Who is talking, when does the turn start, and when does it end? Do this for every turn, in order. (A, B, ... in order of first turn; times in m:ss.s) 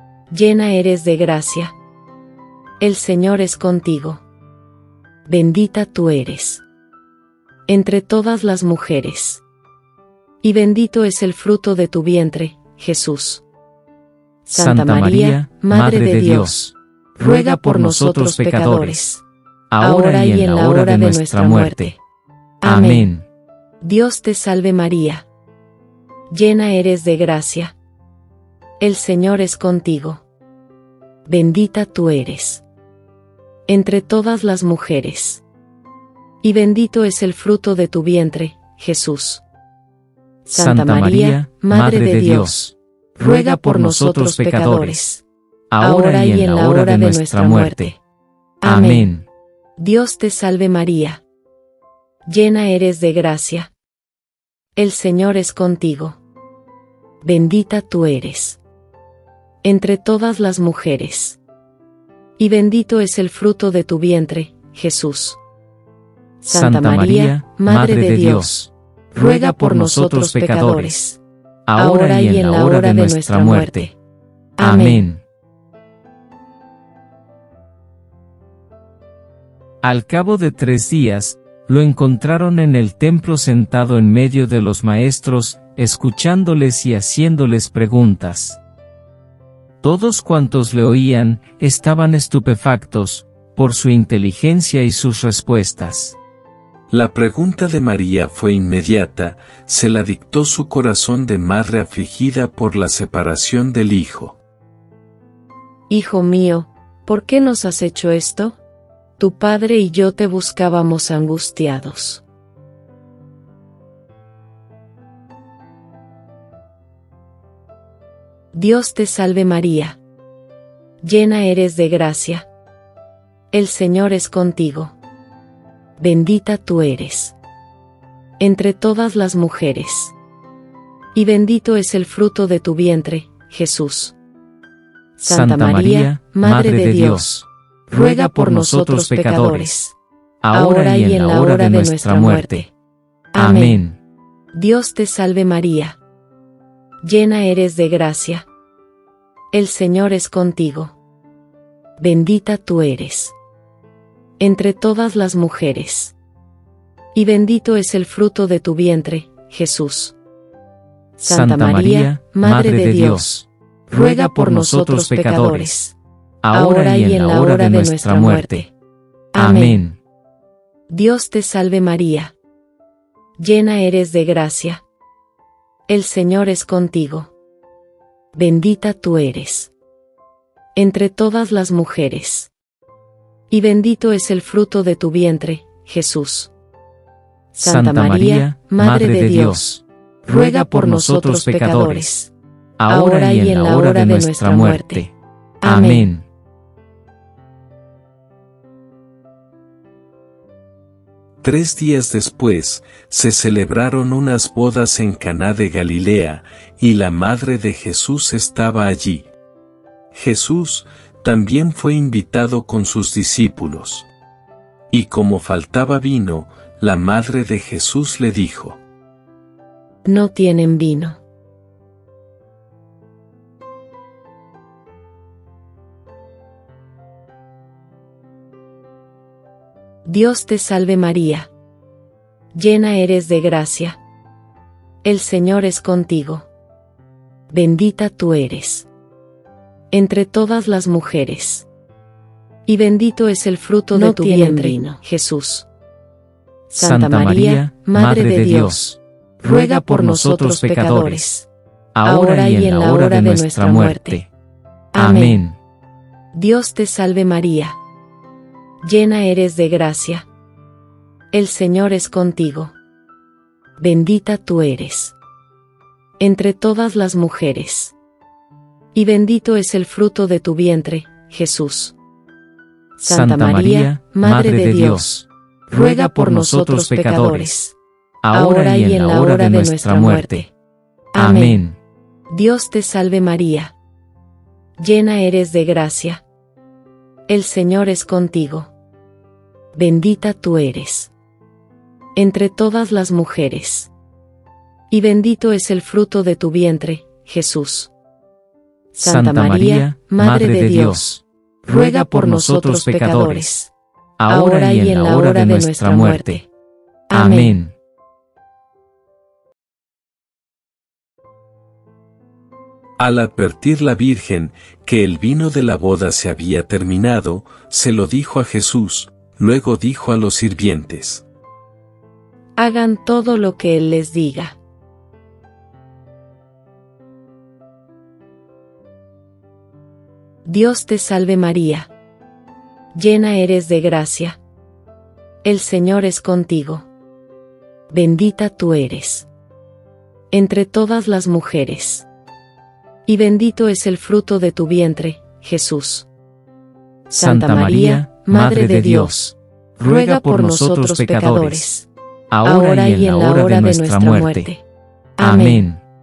0:00.3-0:01.7 A
0:02.8-0:04.2 A
0:05.2-0:06.6 A
0:07.7-0:09.4 A
0:10.4-0:13.4 A
0:14.4-0:16.6 A
0:14.5-0:16.7 B
0:17.2-0:19.2 A
0:17.3-0:19.0 B
0:19.7-0:21.9 B
0:19.8-0:22.0 A
0:22.6-0:23.1 A
0:22.6-0:23.2 B
0:23.8-0:25.2 A
0:26.3-0:27.8 A
0:28.8-0:30.2 A
0:31.2-0:32.6 A
0:33.7-0:35.4 A
0:36.4-0:39.4 A
0:40.5-0:42.6 A
0:40.5-0:42.7 B
0:43.2-0:45.2 A
0:43.3-0:45.0 B
0:45.7-0:47.9 B
0:45.8-0:48.0 A
0:48.6-0:49.1 A
0:48.6-0:49.2 B
0:49.8-0:51.2 A
0:52.3-0:53.7 A
0:54.8-0:56.2 A
0:57.2-0:58.6 A
0:59.6-1:01.4 A
1:02.4-1:05.4 A
1:06.4-1:08.6 A
1:06.5-1:08.7 B
1:09.1-1:11.2 A
1:09.3-1:11.0 B
1:11.7-1:13.9 B
1:11.8-1:13.9 A
1:14.6-1:15.1 A
1:14.6-1:15.2 B
1:19.8-1:28.6 B
1:29.8-1:36.2 B
1:36.9-1:44.4 C
1:45.9-1:48.6 A
1:49.2-1:52.2 A
1:58.5-2:00.0 A
2:01.0-2:02.5 A
2:03.5-2:05.0 A
2:06.0-2:07.4 A
2:08.4-2:10.1 A
2:11.1-2:14.2 A
2:15.2-2:17.3 A
2:15.3-2:17.4 B
2:17.9-2:19.9 A
2:18.1-2:19.7 B
2:20.4-2:22.6 B
2:20.5-2:22.7 A
2:23.3-2:23.8 A
2:23.3-2:24.0 B
2:24.5-2:26.0 A
2:27.0-2:28.5 A
2:29.5-2:31.0 A
2:32.0-2:33.3 A
2:34.4-2:36.1 A
2:37.1-2:40.2 A
2:41.2-2:43.3 A
2:41.3-2:43.5 B
2:43.9-2:46.0 A
2:44.1-2:45.7 B
2:46.4-2:48.6 B
2:46.5-2:48.7 A
2:49.3-2:49.8 A
2:49.3-2:50.0 B
2:50.9-2:52.3 A
2:53.4-2:54.8 A
2:55.9-2:57.3 A
2:58.3-2:59.7 A
3:00.7-3:02.5 A
3:03.5-3:06.5 A
3:07.5-3:09.7 A
3:07.6-3:09.8 B
3:10.2-3:12.3 A
3:10.5-3:12.1 B
3:12.8-3:15.1 B
3:12.9-3:15.1 A
3:15.6-3:16.1 A
3:15.6-3:16.2 B
3:21.4-3:29.3 C
3:30.1-3:34.1 C
3:34.9-3:38.8 C
3:40.0-3:41.2 A
3:50.0-3:51.5 A
3:52.5-3:54.0 A
3:55.0-3:56.5 A
3:57.5-3:58.9 A
3:59.9-4:01.7 A
4:02.6-4:05.7 A
4:06.7-4:08.8 A
4:06.8-4:09.0 B
4:09.4-4:11.5 A
4:09.6-4:11.2 B
4:11.9-4:14.3 B
4:12.0-4:14.2 A
4:14.9-4:15.4 A
4:14.9-4:15.6 B
4:16.3-4:17.8 A
4:18.8-4:20.3 A
4:21.3-4:22.7 A
4:23.8-4:25.1 A
4:26.2-4:27.9 A
4:28.9-4:32.0 A
4:33.0-4:35.1 A
4:33.0-4:35.2 B
4:35.7-4:37.8 A
4:36.1-4:37.5 B
4:38.2-4:40.4 B
4:38.3-4:40.5 A
4:41.1-4:41.6 A
4:41.1-4:41.8 B
4:42.3-4:43.7 A
4:44.8-4:46.2 A
4:47.3-4:48.7 A
4:49.7-4:51.1 A
4:52.1-4:53.9 A
4:54.9-4:57.9 A
4:58.9-5:01.1 A
4:59.0-5:01.2 B
5:01.6-5:03.7 A
5:01.8-5:03.5 B
5:04.2-5:06.4 B
5:04.3-5:06.5 A
5:07.1-5:07.6 A
5:07.1-5:07.7 B
5:13.0-5:21.2 C
5:22.6-5:24.6 A
5:30.4-5:31.9 A
5:32.9-5:34.4 A
5:35.4-5:36.9 A
5:37.9-5:39.3 A
5:40.3-5:42.0 A
5:43.0-5:46.1 A
5:47.1-5:51.6 B
5:47.1-5:49.3 A
5:49.8-5:51.9 A
5:52.3-5:54.5 B
5:52.4-5:54.6 A
5:55.2-5:55.6 A
5:55.2-5:55.8 B